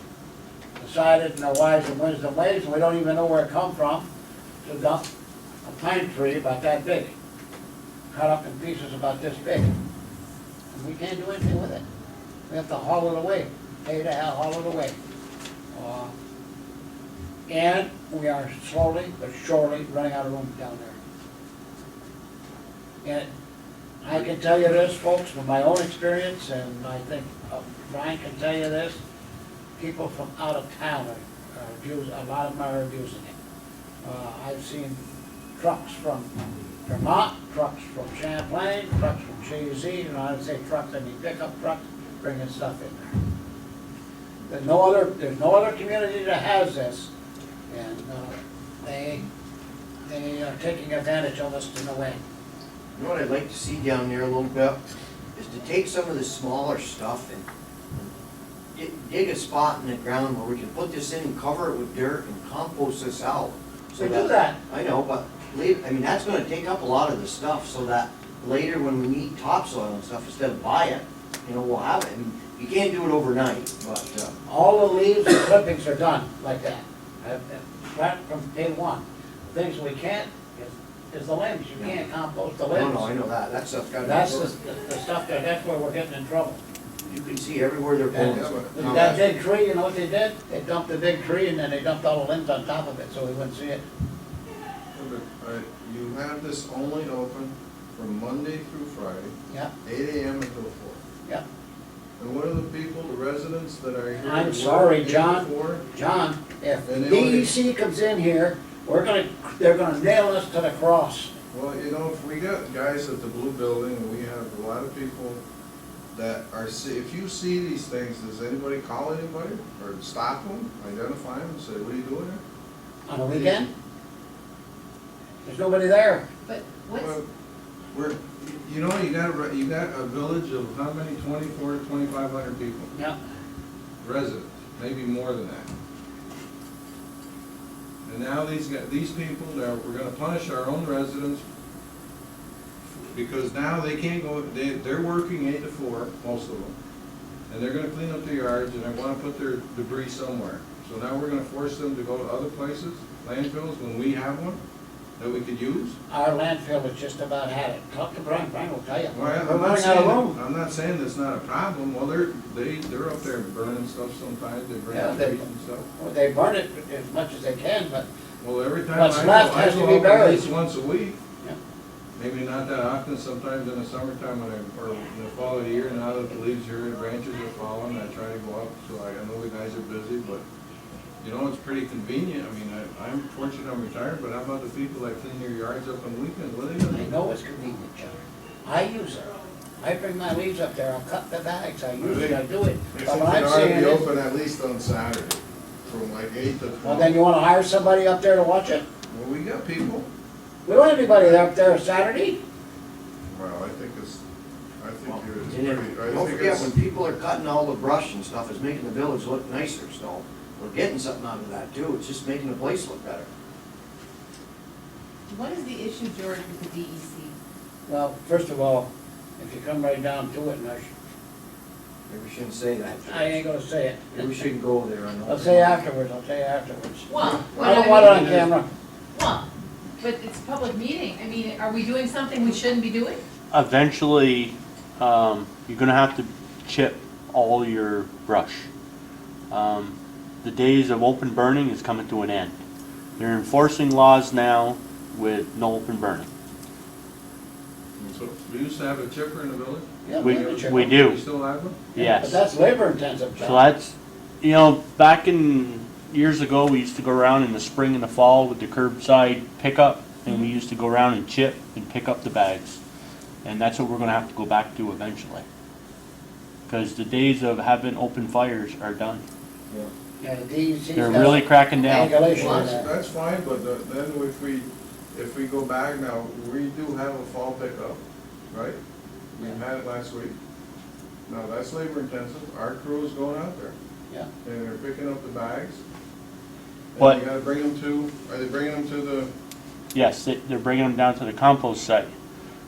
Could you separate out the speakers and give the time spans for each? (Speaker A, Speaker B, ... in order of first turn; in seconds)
Speaker A: 0.8-4.1, 4.6-5.0, 5.6-7.2, 8.1-9.8, 10.7-11.8, 12.5-15.0, 15.7-16.1, 17.5-21.0, 23.0-23.3, 24.0-29.0, 29.8-33.4, 34.0-35.0, 35.6-36.3, 36.9-43.1, 44.5-47.1, 47.7-49.3, 50.1-52.2, 64.0-64.6, 74.5-83.1, 84.0-86.6, 88.1-93.8, 104.2-111.3, 123.1-123.7, 125.5-126.3, 156.1-160.4, 164.9-165.4, 166.0-168.1, 168.9-170.5, 186.9-194.1, 196.8-198.8, 200.7-202.4, 217.9-220.9, 222.9-224.4, 225.3-228.7, 250.1-250.9, 252.0-253.7, 270.2-272.9
Speaker B: 53.0-54.8, 55.4-58.1, 58.8-74.4, 82.7-84.5, 87.1-89.3, 205.1-213.3, 222.1-223.4, 224.1-225.8, 227.6-228.0
Speaker C: 88.3-89.1, 94.9-101.0, 102.2-105.8, 106.8-107.5, 111.5-115.4, 116.1-122.4, 123.3-123.7, 126.9-127.3, 127.9-132.9, 134.0-135.7, 138.1-141.4, 142.9-146.8, 147.5-154.6, 155.2-156.0, 159.1-165.9, 168.4-171.2, 172.2-180.4, 181.2-187.1, 192.0-192.4, 192.9-197.2, 199.1-200.1, 203.3-204.2, 204.8-206.7, 227.3-228.5, 248.0-251.8, 272.3-278.8, 279.4-280.4, 281.3-283.8, 284.4-285.8, 286.9-289.3
Speaker D: 126.5-127.1, 215.3-217.3, 227.1-228.4, 229.1-229.5, 230.0-233.2
Speaker E: 233.5-238.7, 239.5-242.6, 243.2-246.3, 250.2-251.2, 251.9-252.4, 253.4-262.8, 263.4-265.4, 266.7-269.2, 270.9-272.6, 289.9-292.1